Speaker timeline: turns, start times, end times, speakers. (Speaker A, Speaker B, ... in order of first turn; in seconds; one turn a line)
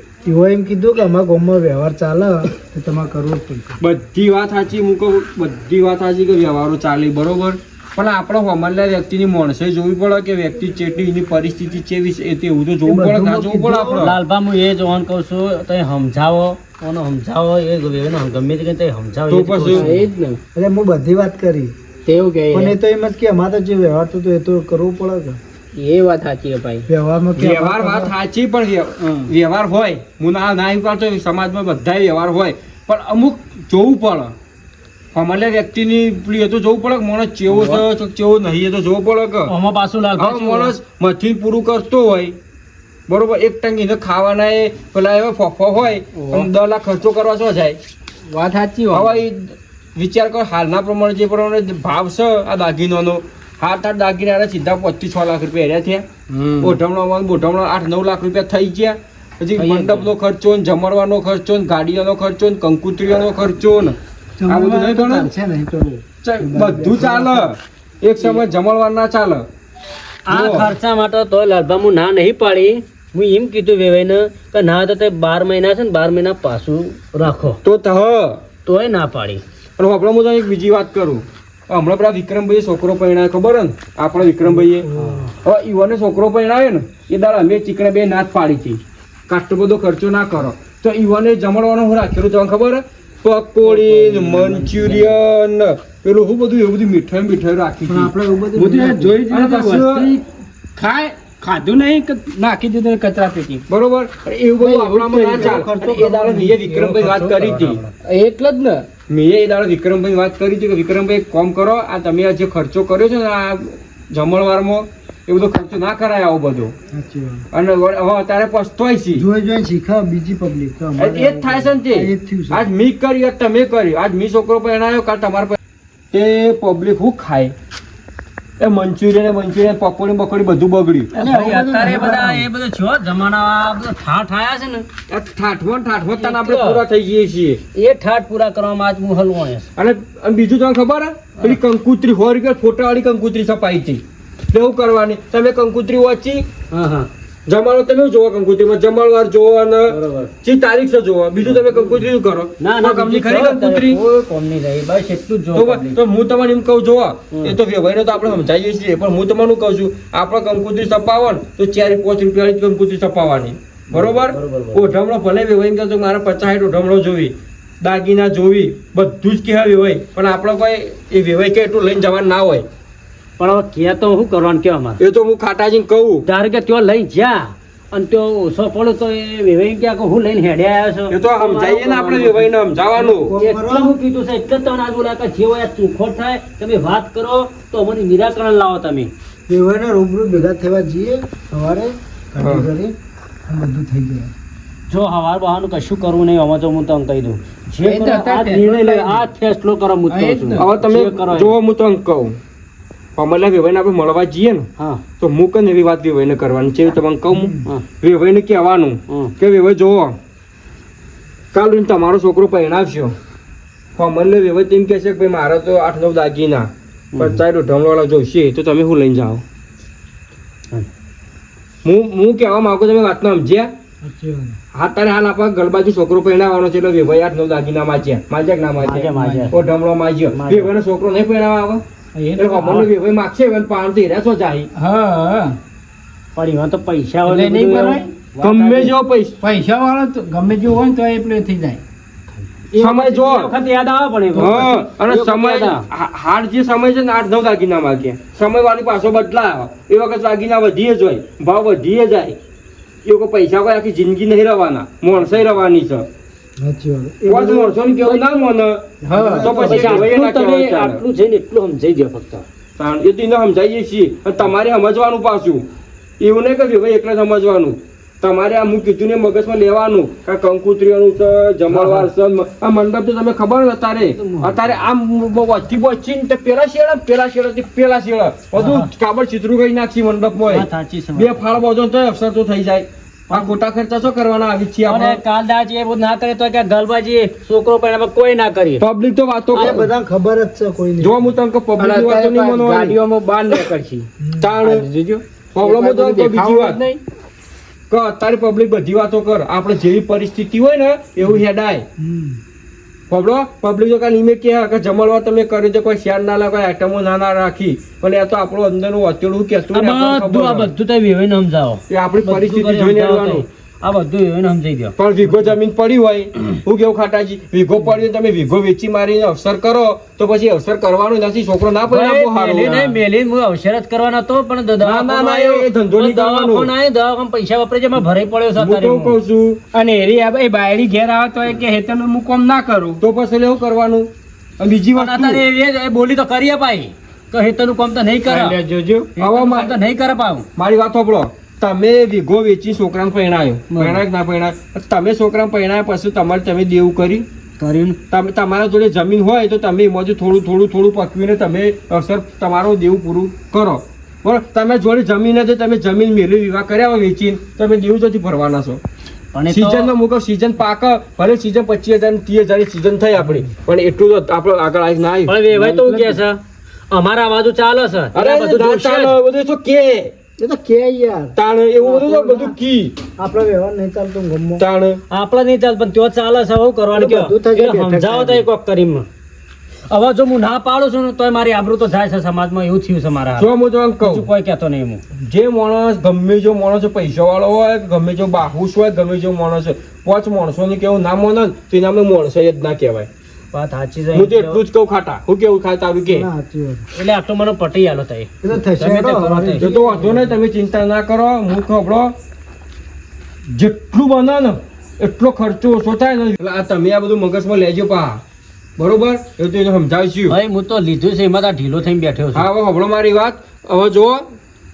Speaker A: 0.2-3.8
Speaker B: 3.8-14.2
Speaker A: 12.8-14.0
Speaker C: 13.9-20.0
Speaker B: 19.3-20.0
Speaker D: 19.7-20.4
Speaker A: 20.5-21.7
Speaker D: 22.1-22.8
Speaker A: 22.5-25.4
Speaker D: 25.7-26.9
Speaker A: 26.9-28.1
Speaker B: 27.4-34.3
Speaker D: 29.0-29.3
Speaker B: 35.1-39.5
Speaker C: 39.5-40.7
Speaker B: 40.2-42.4
Speaker B: 43.1-47.8
Speaker D: 46.1-46.5
Speaker D: 48.3-49.2
Speaker B: 48.9-56.0
Speaker D: 56.3-56.8
Speaker B: 56.6-65.3
Speaker C: 59.6-60.0
Speaker A: 64.4-67.5
Speaker B: 66.2-69.5
Speaker C: 70.3-77.6
Speaker B: 70.3-70.7
Speaker B: 77.6-78.4
Speaker C: 78.6-79.4
Speaker B: 79.8-84.9
Speaker A: 84.4-85.3
Speaker C: 85.0-85.2
Speaker B: 85.4-98.1
Speaker A: 93.7-95.0
Speaker A: 97.9-99.2
Speaker D: 98.5-103.6
Speaker B: 99.2-100.2
Speaker B: 103.7-107.8
Speaker A: 104.6-106.7
Speaker D: 105.0-105.6
Speaker C: 106.7-107.9
Speaker D: 108.0-108.9
Speaker B: 109.1-116.7
Speaker A: 116.9-117.4
Speaker B: 117.5-119.2
Speaker A: 119.1-122.7
Speaker B: 121.0-125.6
Speaker B: 126.1-127.5
Speaker B: 128.6-131.1
Speaker A: 131.1-132.5
Speaker C: 131.1-134.8
Speaker B: 135.1-137.6
Speaker C: 136.2-136.8
Speaker C: 137.7-139.7
Speaker B: 139.8-146.5
Speaker C: 146.7-147.1
Speaker B: 147.5-154.0
Speaker C: 149.9-150.3
Speaker C: 151.4-152.1
Speaker C: 152.6-156.0
Speaker B: 155.5-172.7
Speaker C: 163.9-164.9
Speaker C: 173.4-175.0
Speaker B: 175.0-176.2
Speaker C: 176.2-182.5
Speaker B: 181.1-183.3
Speaker A: 182.9-183.9
Speaker C: 183.4-189.1
Speaker A: 189.5-192.9
Speaker B: 192.4-192.7
Speaker A: 193.5-194.3
Speaker C: 194.9-201.6
Speaker D: 197.8-199.2
Speaker D: 200.1-200.7
Speaker B: 200.6-202.4
Speaker B: 203.2-204.7
Speaker C: 204.8-205.0
Speaker B: 205.2-210.2
Speaker A: 207.3-207.7
Speaker C: 209.1-209.3
Speaker B: 211.5-213.2
Speaker B: 213.9-219.4
Speaker C: 217.1-217.4
Speaker B: 221.8-223.7
Speaker A: 224.0-224.6
Speaker B: 224.7-231.8
Speaker C: 228.8-229.6
Speaker D: 229.2-229.5
Speaker A: 229.2-229.5
Speaker C: 230.3-230.7
Speaker D: 232.1-232.9
Speaker B: 232.3-234.7
Speaker D: 234.7-235.6
Speaker C: 236.3-238.9
Speaker D: 237.2-238.1
Speaker B: 238.4-239.4
Speaker D: 239.4-241.8
Speaker B: 242.7-243.5
Speaker D: 242.8-243.3
Speaker C: 242.8-245.8
Speaker B: 244.3-252.4
Speaker B: 253.0-256.1
Speaker A: 256.6-257.8
Speaker B: 257.3-261.0
Speaker D: 258.0-258.4
Speaker A: 259.0-260.1
Speaker D: 259.1-260.1
Speaker C: 259.6-262.4
Speaker B: 262.8-265.6
Speaker B: 266.2-285.2
Speaker C: 271.7-272.1
Speaker C: 274.0-274.9
Speaker C: 278.6-278.9
Speaker C: 280.4-281.6
Speaker C: 283.3-283.6
Speaker C: 284.9-288.8
Speaker B: 288.8-289.9
Speaker A: 289.5-291.3
Speaker B: 291.0-293.0
Speaker D: 291.8-294.1
Speaker A: 294.2-294.6
Speaker B: 294.4-294.9
Speaker D: 294.6-297.0
Speaker B: 295.5-296.8
Speaker B: 297.9-301.8
Speaker A: 302.0-302.4
Speaker B: 303.1-310.7
Speaker C: 309.7-315.6
Speaker B: 311.9-313.4
Speaker B: 315.0-323.0
Speaker C: 321.9-329.2
Speaker B: 324.8-326.7
Speaker B: 328.6-329.6
Speaker D: 329.7-333.0
Speaker B: 333.0-335.4
Speaker C: 334.9-338.6
Speaker D: 338.3-339.1
Speaker B: 339.1-339.8
Speaker C: 339.2-340.4
Speaker B: 340.6-347.2
Speaker C: 343.7-344.0
Speaker C: 347.6-348.0
Speaker B: 348.1-358.8
Speaker C: 359.3-359.9
Speaker B: 359.5-365.4
Speaker A: 363.2-363.4
Speaker C: 365.3-369.2
Speaker A: 365.5-366.2
Speaker B: 368.1-370.1
Speaker A: 370.4-372.5
Speaker B: 371.3-373.0
Speaker A: 373.1-374.6
Speaker B: 374.6-375.0
Speaker C: 375.1-379.1
Speaker A: 376.9-378.4
Speaker C: 379.9-383.5
Speaker B: 383.4-384.3
Speaker C: 384.0-385.0
Speaker B: 385.2-393.1
Speaker C: 393.5-394.6
Speaker B: 394.1-396.3
Speaker A: 396.1-396.8
Speaker C: 396.9-399.7
Speaker A: 398.4-400.3
Speaker B: 399.6-402.1
Speaker B: 403.5-408.2
Speaker B: 408.8-410.4
Speaker C: 410.3-412.5
Speaker B: 412.3-414.3